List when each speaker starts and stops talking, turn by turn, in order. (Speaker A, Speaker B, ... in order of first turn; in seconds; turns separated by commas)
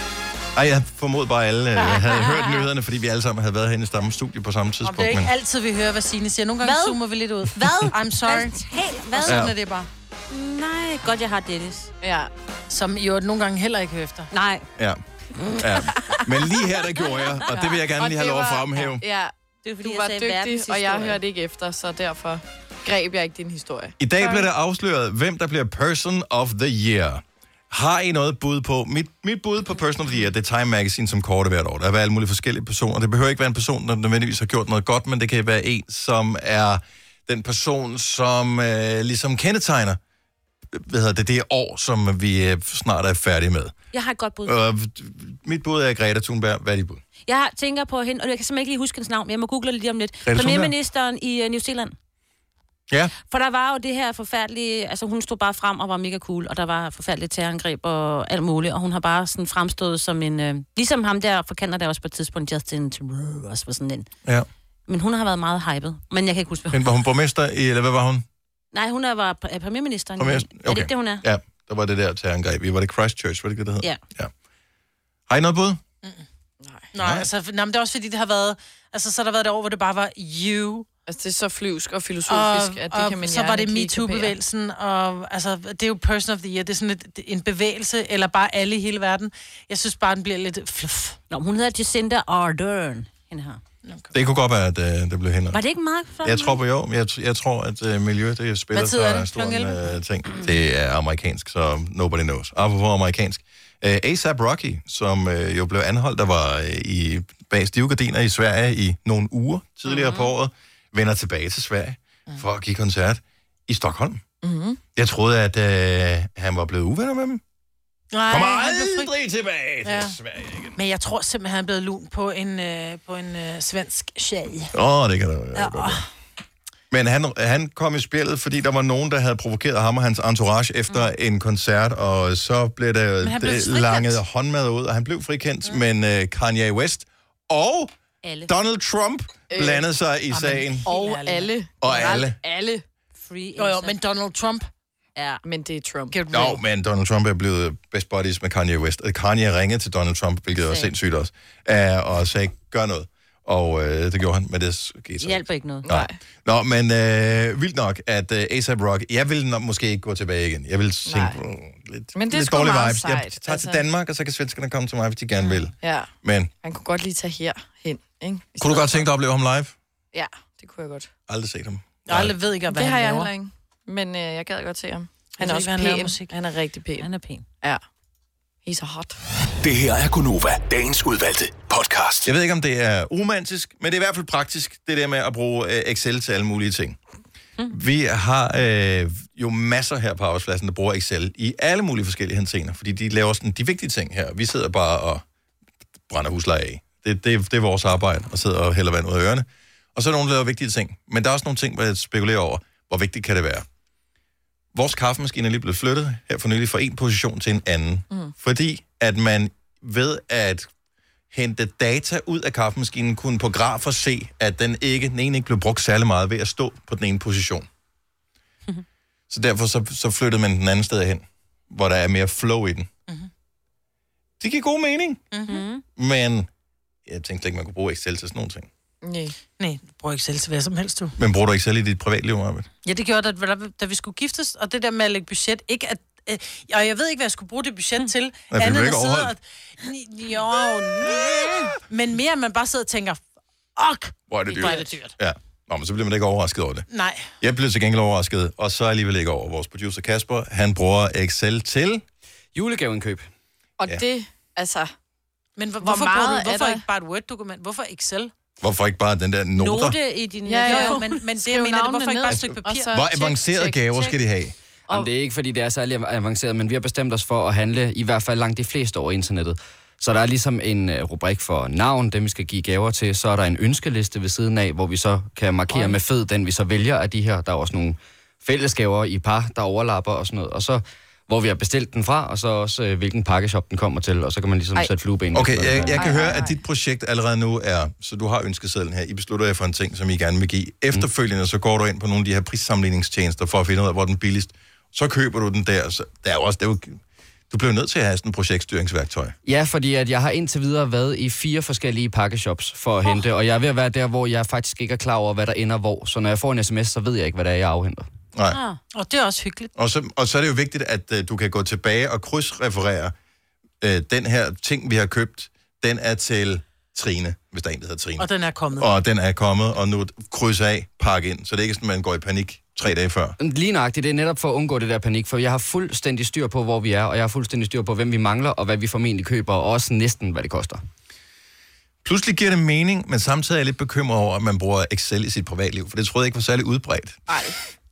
Speaker A: 0.6-5.3, Speaker B: 4.8-8.6, Speaker C: 6.6-9.5, Speaker B: 9.2-9.9, Speaker A: 9.3-9.5, Speaker C: 10.3-11.9, Speaker D: 12.0-12.3, Speaker B: 12.7-14.3, Speaker C: 14.3-14.7, Speaker C: 15.4-16.0, Speaker A: 15.5-19.0, Speaker D: 17.5-19.3, Speaker C: 19.6-21.2, Speaker D: 19.8-24.5, Speaker A: 24.0-40.0, Speaker A: 40.7-43.8, Speaker C: 43.9-44.6, Speaker A: 44.5-47.0, Speaker C: 47.2-52.0, Speaker A: 50.3-50.7, Speaker C: 53.2-64.1, Speaker C: 64.9-66.8, Speaker A: 66.7-68.2, Speaker C: 68.7-71.2, Speaker A: 70.2-74.3, Speaker A: 75.3-75.8, Speaker B: 76.9-80.9, Speaker A: 77.0-77.3, Speaker D: 81.1-84.3, Speaker B: 82.3-91.2, Speaker C: 91.3-93.6, Speaker B: 93.8-94.1, Speaker A: 94.1-95.6, Speaker C: 95.5-96.6, Speaker A: 96.2-114.2, Speaker B: 98.7-99.8, Speaker C: 109.8-110.3, Speaker D: 114.4-114.8, Speaker A: 115.0-117.4, Speaker B: 118.1-119.1, Speaker A: 118.3-120.8, Speaker B: 119.8-120.2, Speaker B: 120.8-124.7, Speaker A: 124.7-126.0, Speaker B: 125.5-126.1, Speaker A: 126.9-137.9, Speaker B: 133.2-134.2, Speaker C: 138.2-138.5, Speaker A: 138.5-140.9, Speaker D: 139.5-139.8, Speaker B: 140.3-141.5, Speaker D: 140.8-142.8, Speaker A: 141.8-142.4, Speaker C: 143.2-144.0, Speaker B: 143.6-144.7, Speaker C: 145.2-145.4, Speaker D: 145.4-146.2, Speaker B: 146.1-146.6, Speaker A: 146.3-166.5, Speaker C: 150.6-150.9, Speaker C: 155.2-155.9, Speaker D: 155.8-156.2, Speaker D: 161.1-161.4, Speaker D: 162.2-163.8, Speaker D: 165.8-166.1, Speaker D: 166.6-169.1, Speaker A: 168.6-169.8, Speaker D: 170.1-171.1, Speaker A: 171.3-172.3, Speaker B: 172.1-173.3, Speaker D: 172.7-177.1, Speaker B: 175.4-176.3, Speaker C: 177.0-177.4, Speaker D: 178.7-179.2, Speaker E: 179.6-182.3, Speaker A: 182.2-187.0, Speaker A: 187.7-195.2, Speaker A: 196.1-203.7, Speaker A: 204.7-210.7, Speaker A: 211.3-217.7, Speaker A: 219.3-222.9, Speaker A: 224.4-225.2, Speaker B: 225.3-225.6, Speaker C: 225.5-225.8, Speaker A: 226.0-226.5, Speaker A: 227.1-228.7, Speaker D: 229.0-229.3, Speaker B: 229.6-231.2, Speaker A: 231.2-232.7, Speaker B: 232.8-243.2, Speaker A: 238.5-239.3, Speaker B: 243.8-245.1, Speaker A: 244.3-246.9, Speaker B: 246.9-247.3, Speaker A: 247.4-252.0, Speaker F: 252.5-253.3, Speaker D: 253.8-254.9, Speaker B: 255.6-258.3, Speaker D: 255.8-256.9, Speaker A: 258.6-260.0, Speaker C: 259.6-261.2, Speaker D: 260.4-264.1, Speaker B: 260.7-263.2, Speaker A: 262.3-264.6, Speaker F: 264.9-286.1, Speaker D: 275.7-276.0, Speaker A: 285.3-299.4, Speaker D: 285.7-286.6, Speaker F: 299.4-308.1, Speaker A: 308.3-308.6, Speaker C: 308.5-308.8, Speaker B: 308.9-309.7, Speaker A: 309.8-313.1, Speaker A: 313.8-323.4, Speaker B: 318.2-318.9, Speaker F: 323.4-330.8, Speaker A: 332.0-337.3, Speaker D: 337.3-337.6